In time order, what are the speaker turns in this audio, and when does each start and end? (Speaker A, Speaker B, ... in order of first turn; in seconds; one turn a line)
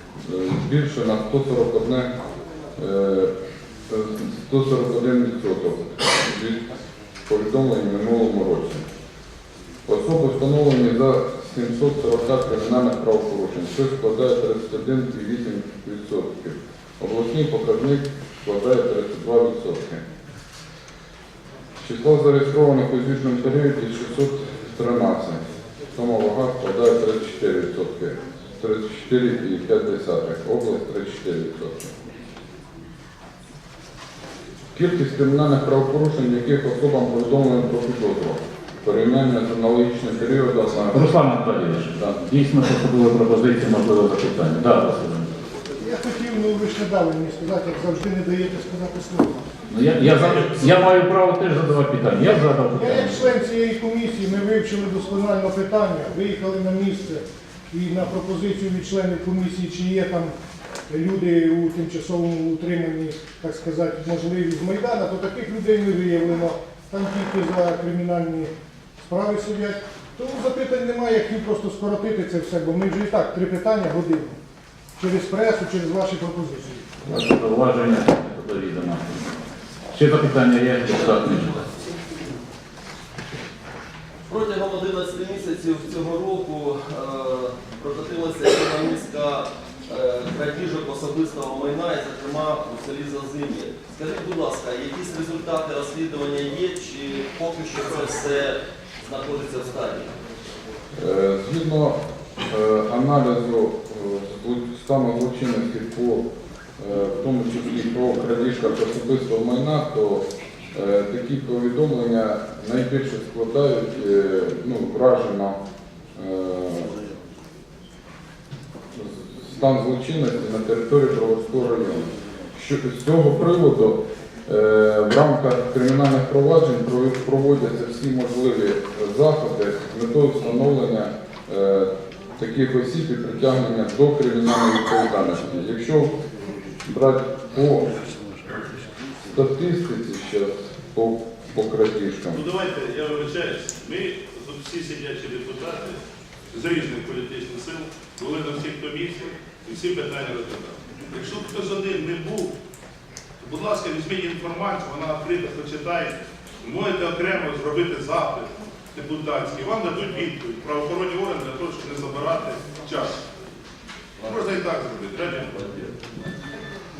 Speaker A: 0.2-2.1
Speaker A: 2.8-3.3
Speaker A: 3.9-6.6
Speaker A: 7.3-8.8
Speaker A: 9.9-20.0
Speaker A: 21.8-25.4
Speaker A: 25.9-31.9
Speaker A: 34.8-41.1
Speaker B: 40.9-45.3
Speaker C: 45.8-49.5
Speaker B: 49.7-53.3
Speaker C: 50.1-50.4
Speaker C: 52.7-60.3
Speaker C: 60.9-74.4
Speaker C: 75.0-76.8
Speaker B: 77.1-79.1
Speaker B: 79.9-81.6
Speaker D: 84.3-100.1
Speaker A: 101.0-102.0
Speaker A: 102.5-106.2
Speaker A: 106.8-115.6
Speaker A: 116.2-116.9
Speaker A: 118.9-136.1
Speaker A: 136.9-137.9
Speaker A: 139.2-142.4
Speaker E: 142.4-145.9
Speaker E: 146.5-152.5
Speaker E: 153.4-163.1
Speaker E: 164.3-165.7